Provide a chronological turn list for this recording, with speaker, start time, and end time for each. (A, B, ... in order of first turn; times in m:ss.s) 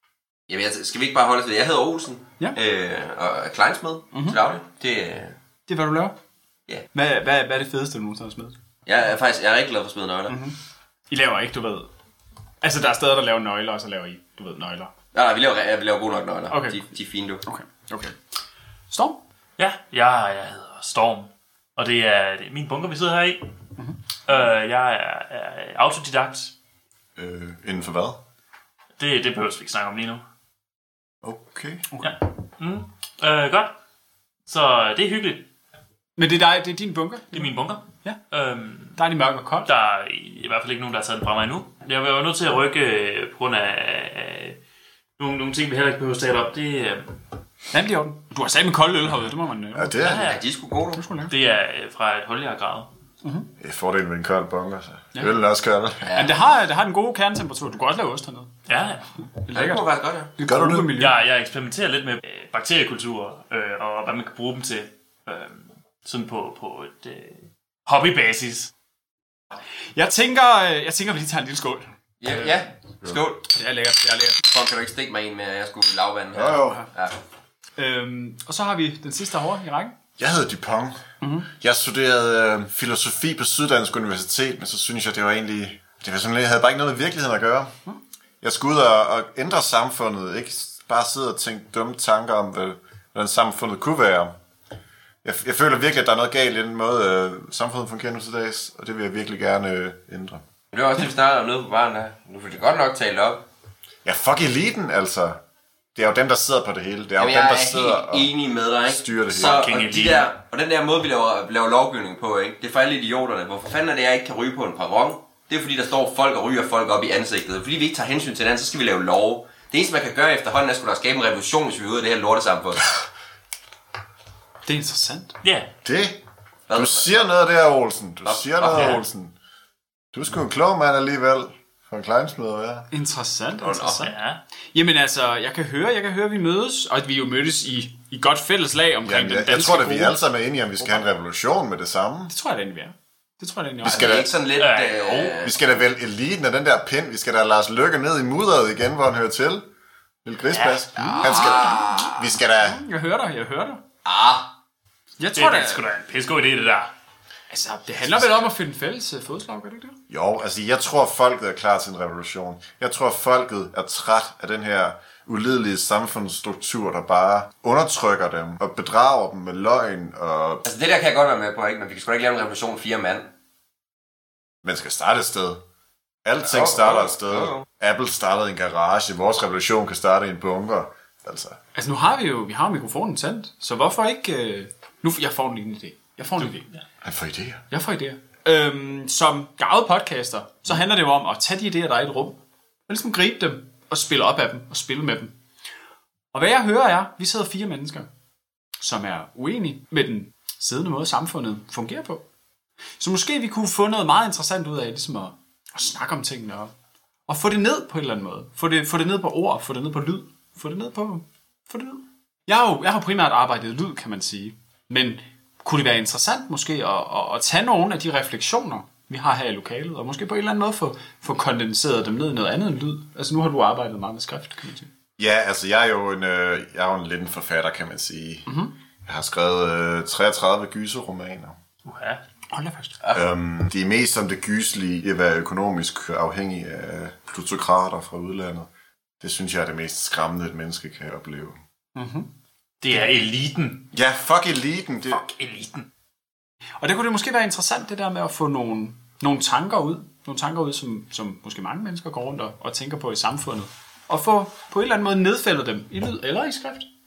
0:00.5-0:05.4 A
0:04.1-0:04.4 B
0:05.7-0:06.1 B
0:06.9-0:08.6 B
0:08.8-0:10.3 A
0:10.3-0:10.6 B
0:11.1-0:11.9 B
0:12.6-0:14.9 B
0:15.1-0:17.4 A
0:16.5-0:16.8 B
0:17.4-0:18.2 B
0:18.9-0:19.2 B
0:19.6-0:23.5 C
0:24.3-0:26.5 C
0:27.2-0:28.2 D
0:29.0-0:30.2 C
0:31.2-0:31.8 D
0:31.9-0:32.2 B
0:32.0-0:33.7 C
0:34.5-0:35.5 C
0:36.2-0:37.5 B
0:37.3-0:39.0 C
0:39.0-0:39.7 B
0:39.6-0:44.6 C
0:45.2-0:47.2 C
0:47.7-0:50.1 B
0:49.7-0:50.3 D
0:50.0-0:50.4 C
0:50.2-0:51.0 A
0:50.9-0:51.3 B
0:51.3-0:52.9 C
0:53.2-0:53.5 B
0:53.6-0:56.1 D
0:56.0-0:56.4 A
0:56.1-0:58.6 B
0:58.7-0:59.0 C
0:59.2-1:01.2 B
0:59.5-1:00.3 A
1:00.4-1:00.9 D
1:01.0-1:08.7 C
1:09.9-1:12.5 B
1:12.2-1:13.4 A
1:13.5-1:14.5 B
1:14.4-1:17.2 A
1:16.3-1:16.8 D
1:16.6-1:16.8 B
1:17.8-1:20.0 B
1:20.2-1:27.7 D
1:21.2-1:21.5 B
1:28.4-1:34.3 D
1:35.2-1:40.4 D
1:40.7-1:43.4 A
1:44.0-1:45.4 D
1:45.9-1:48.3 D
1:47.2-2:02.9 A
1:48.8-1:49.7 D
1:49.3-1:50.3 C
2:04.6-2:05.4 B
2:05.4-2:05.7 C
2:05.8-2:09.3 D
2:06.7-2:07.2 A
2:08.2-2:09.0 A
2:08.7-2:09.0 C
2:10.1-2:12.9 D
2:12.9-2:14.2 B
2:13.6-2:14.1 A
2:14.0-2:14.4 C
2:14.7-2:20.2 B
2:19.0-2:22.3 D
2:20.8-2:21.0 B
2:22.3-2:24.2 B
2:23.8-2:24.3 D
2:23.8-2:25.6 A
2:24.6-2:25.5 C
2:25.4-2:29.7 D
2:30.2-2:32.8 D
2:30.5-2:30.8 C
2:31.0-2:33.8 B
2:31.2-2:32.2 A
2:34.0-2:34.5 A
2:35.2-2:35.8 B
2:35.3-2:36.9 C
2:37.5-2:40.0 B
2:38.1-2:38.4 D
2:40.1-2:50.6 D
2:50.6-2:53.3 A
2:54.6-2:55.6 D
2:56.2-3:01.6 D
2:56.5-2:57.6 A
3:01.7-3:06.7 B
3:07.0-3:07.6 D
3:07.7-3:15.3 B
3:16.3-3:18.1 B
3:18.8-3:22.2 B
3:23.0-3:26.7 B
3:27.3-3:44.9 B
3:45.2-3:48.5 D
3:48.5-3:48.8 B
3:49.0-3:51.6 D
3:51.8-3:52.2 C
3:52.5-3:53.0 B
3:53.0-3:53.2 A
3:53.1-3:58.7 D
3:59.2-4:01.6 D
4:02.0-4:02.3 B
4:02.8-4:03.9 C
4:03.9-4:05.2 D
4:05.1-4:05.9 C
4:06.8-4:16.9 B